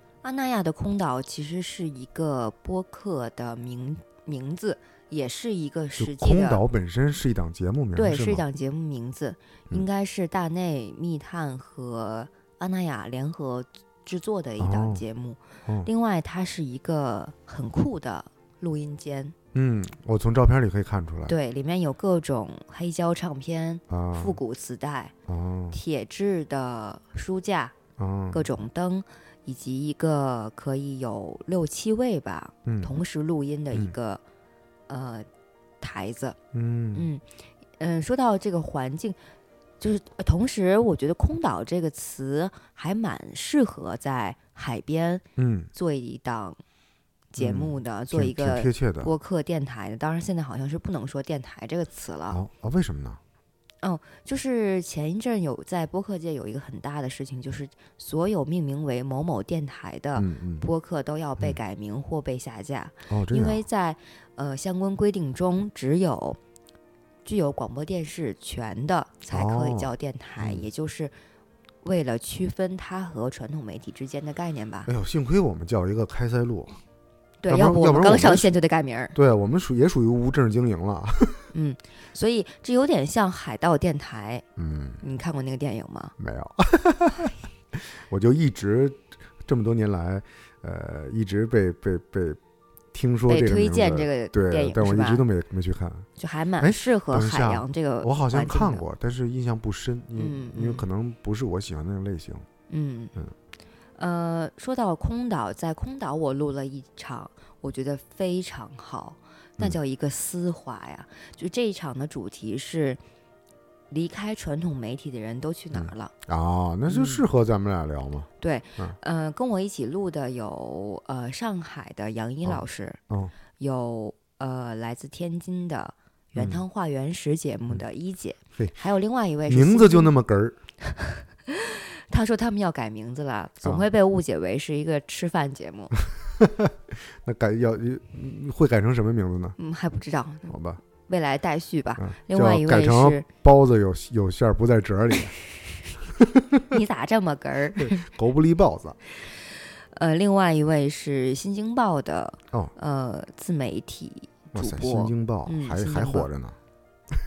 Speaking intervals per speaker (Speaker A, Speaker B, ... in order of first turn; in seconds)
Speaker A: 0.2-6.6, 7.9-19.3, 21.3-25.1, 25.7-27.7, 28.3-34.2, 34.9-35.2, 35.8-36.4, 36.9-37.2, 37.8-39.2, 39.8-46.6, 47.3-52.4, 53.8-66.4, 67.2-71.1, 71.8-74.9, 77.4-79.1, 81.5-84.4, 85.0-86.1, 93.3-95.2, 96.2-98.8, 100.2-100.8, 102.7-103.1, 104.0-113.0, 113.9-116.1, 116.9-117.2, 118.4-123.0, 123.6-130.1, 130.8-135.9, 139.6-140.5, 141.1-143.2, 146.7-148.0, 149.9-156.3
Speaker B: 6.0-8.4, 14.6-15.0, 19.5-21.3, 23.9-24.4, 25.3-25.8, 28.0-28.5, 32.6-33.0, 36.5-37.1, 45.4-45.7, 47.4-49.1, 52.3-53.2, 60.1-60.7, 63.1-63.6, 69.3-70.7, 74.8-76.8, 77.5-78.5, 79.1-81.4, 84.5-85.0, 86.2-92.4, 92.9-96.1, 96.6-102.5, 115.7-119.0, 122.4-123.3, 126.3-126.6, 129.5-130.6, 136.4-139.6, 140.5-140.8, 142.0-145.3, 146.2-146.6, 147.8-149.0, 154.5-156.6